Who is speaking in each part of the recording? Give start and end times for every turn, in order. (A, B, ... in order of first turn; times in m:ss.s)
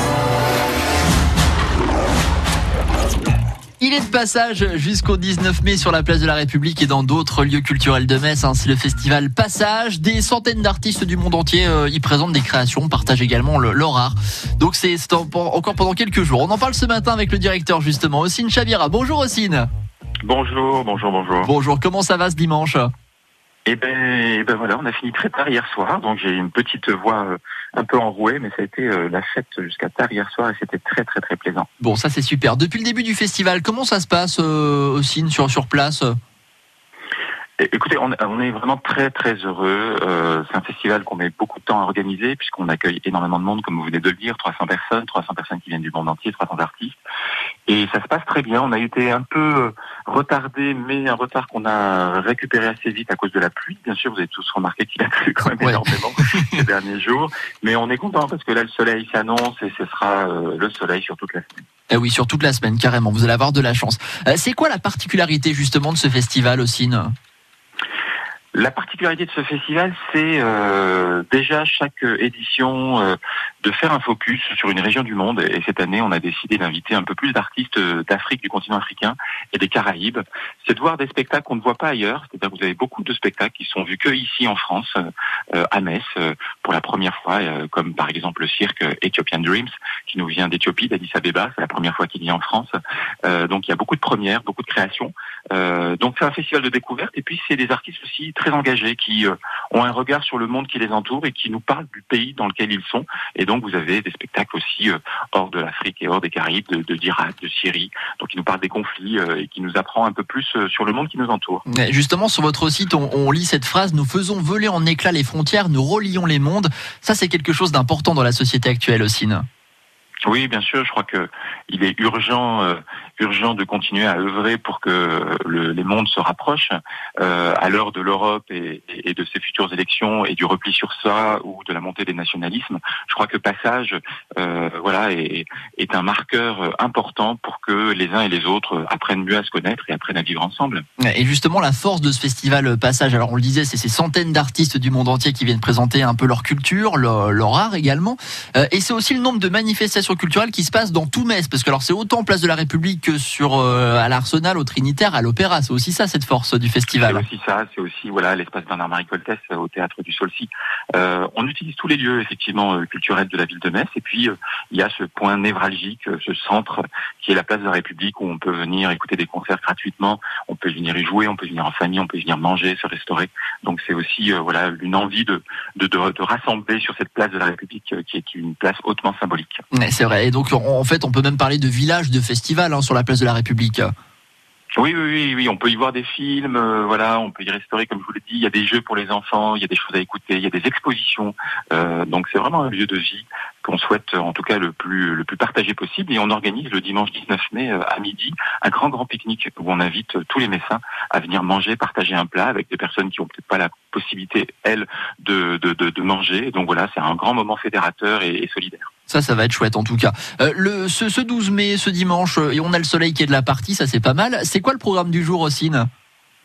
0:03.8-0:19.7 A
0:20.2-0:21.5 B
0:21.4-0:22.9 A
0:23.7-0:31.7 B
0:31.8-0:36.1 A
0:37.6-0:47.0 B
0:47.7-1:01.5 B
1:01.9-1:07.1 A
1:08.5-1:25.0 B
1:25.5-1:51.6 B
1:51.7-1:59.4 A
2:00.2-2:20.8 B
2:21.0-2:37.2 A
2:37.0-2:59.6 B
2:59.7-3:03.9 A
3:04.8-3:28.9 B
3:29.1-3:35.9 A